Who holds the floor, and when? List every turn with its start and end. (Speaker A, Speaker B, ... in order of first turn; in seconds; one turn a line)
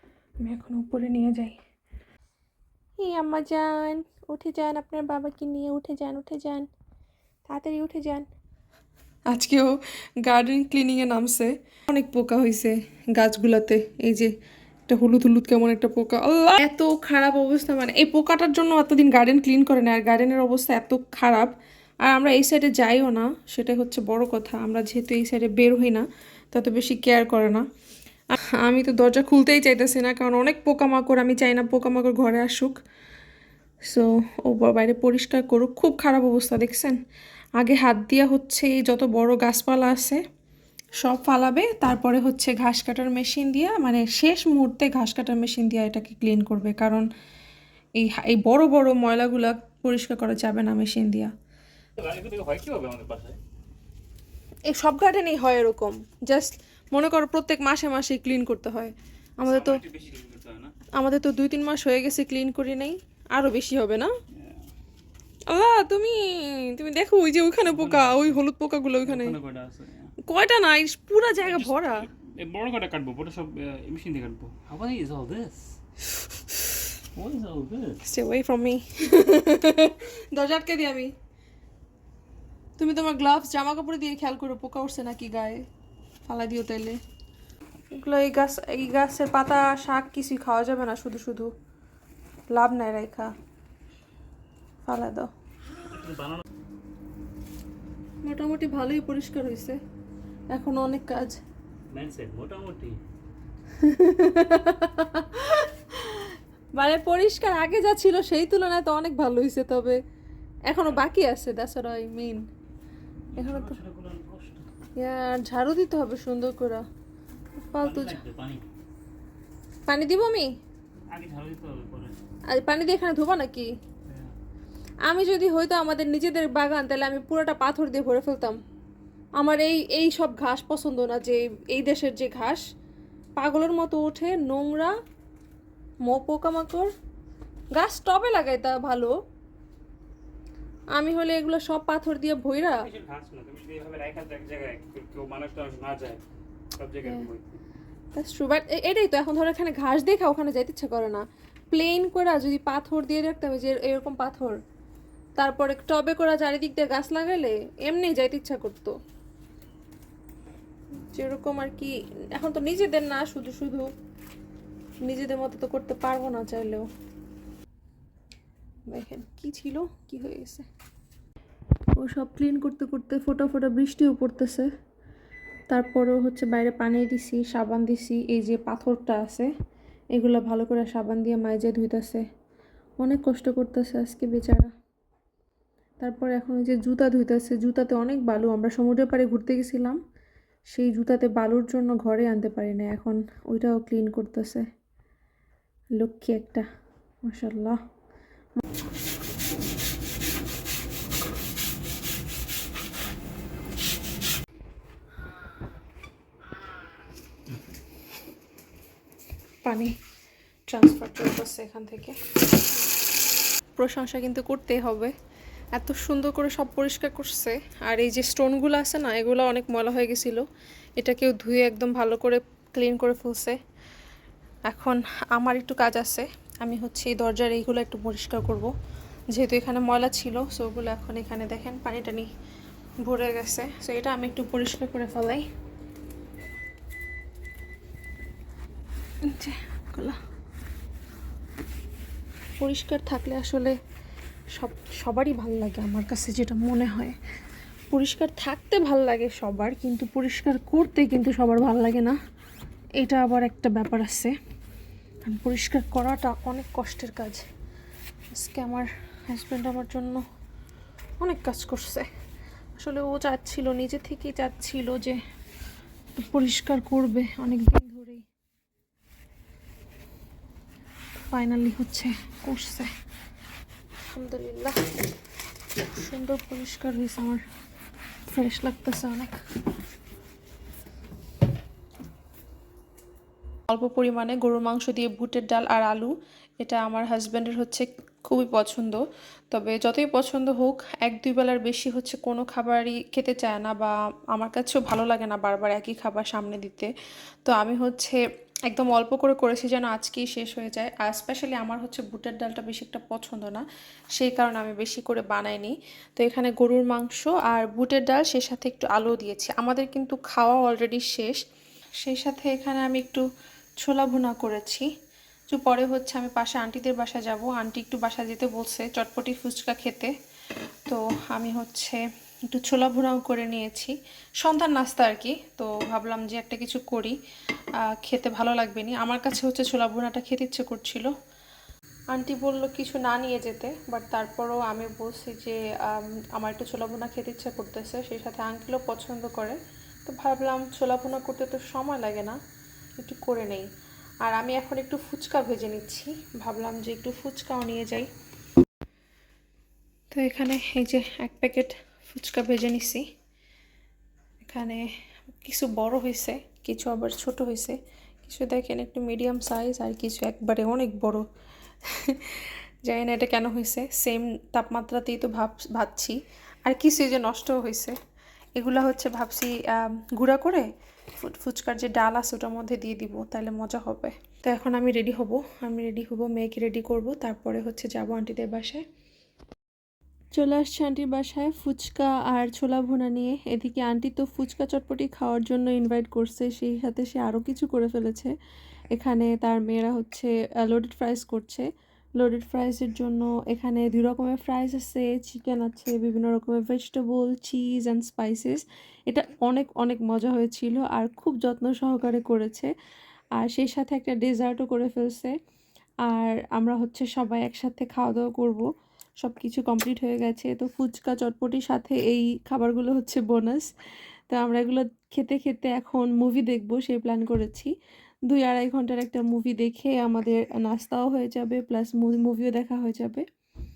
Speaker A: 0.4-1.6
Speaker A: 3.0-6.7
Speaker A: 7.5-8.2
Speaker A: 9.3-14.3
Speaker A: 14.9-21.5
Speaker A: 22.0-27.6
Speaker A: 28.3-32.8
Speaker A: 33.9-37.0
Speaker A: 37.6-40.2
Speaker A: 41.0-47.0
Speaker A: 48.0-51.3
Speaker B: 52.0-53.4
Speaker A: 54.7-59.8
Speaker B: 59.4-60.7
Speaker A: 61.0-64.1
Speaker B: 64.3-64.6
Speaker A: 65.5-69.3
Speaker B: 67.7-68.4
Speaker B: 69.0-70.1
Speaker A: 70.2-72.1
Speaker B: 71.4-75.7
Speaker B: 77.2-78.0
Speaker A: 78.0-81.1
Speaker A: 82.8-85.7
Speaker A: 86.2-87.0
Speaker A: 87.9-91.5
Speaker A: 92.5-93.3
Speaker A: 94.8-95.3
Speaker B: 95.8-96.4
Speaker A: 98.2-99.8
Speaker A: 100.5-101.4
Speaker B: 101.9-103.0
Speaker A: 103.7-110.0
Speaker A: 110.7-112.4
Speaker B: 113.3-114.7
Speaker A: 113.3-113.8
Speaker A: 115.0-116.8
Speaker A: 117.7-118.2
Speaker B: 117.8-118.6
Speaker A: 119.9-120.5
Speaker B: 121.1-122.2
Speaker A: 122.5-123.7
Speaker B: 124.1-124.3
Speaker A: 125.0-128.6
Speaker A: 129.4-132.6
Speaker A: 133.4-134.9
Speaker A: 136.1-136.9
Speaker A: 137.7-139.1
Speaker A: 140.9-142.8
Speaker B: 142.7-146.2
Speaker B: 146.8-147.6
Speaker A: 148.1-154.6
Speaker A: 155.4-159.0
Speaker A: 160.9-163.9
Speaker A: 165.0-166.8
Speaker A: 168.9-170.7
Speaker A: 172.0-174.7
Speaker A: 175.7-179.5
Speaker A: 180.1-182.2
Speaker A: 183.0-184.7
Speaker A: 186.0-190.0
Speaker A: 190.7-194.7
Speaker A: 196.0-196.7
Speaker A: 197.2-197.8
Speaker A: 209.6-209.9
Speaker A: 210.7-212.2
Speaker A: 213.8-215.1
Speaker A: 215.8-220.4
Speaker A: 221.0-223.6
Speaker A: 224.7-228.7
Speaker A: 229.3-232.3
Speaker A: 233.0-235.4
Speaker A: 239.2-240.2
Speaker A: 242.6-243.8
Speaker A: 244.5-247.2
Speaker A: 247.9-252.2
Speaker A: 253.0-254.3
Speaker A: 255.2-257.4
Speaker A: 258.3-260.2
Speaker A: 261.2-262.1
Speaker A: 262.8-265.2
Speaker A: 266.2-268.2
Speaker A: 271.2-272.9
Speaker A: 274.1-274.9
Speaker A: 275.9-277.4
Speaker A: 278.3-279.4
Speaker A: 283.7-296.9
Speaker A: 297.4-303.6
Speaker A: 304.1-311.4
Speaker A: 312.0-313.2
Speaker A: 313.8-314.9
Speaker A: 315.5-320.1
Speaker A: 320.9-327.1
Speaker A: 327.8-331.1
Speaker A: 332.1-342.4
Speaker A: 343.0-343.7
Speaker A: 344.2-348.1
Speaker A: 350.1-353.0
Speaker A: 354.4-354.8
Speaker A: 355.4-361.2
Speaker A: 361.9-367.9
Speaker A: 368.6-370.6
Speaker A: 371.2-378.8
Speaker A: 380.4-388.3
Speaker A: 388.9-391.7
Speaker A: 392.2-402.7
Speaker A: 403.4-405.3
Speaker A: 406.1-408.6
Speaker A: 409.2-413.7
Speaker A: 414.3-417.7
Speaker A: 418.3-423.2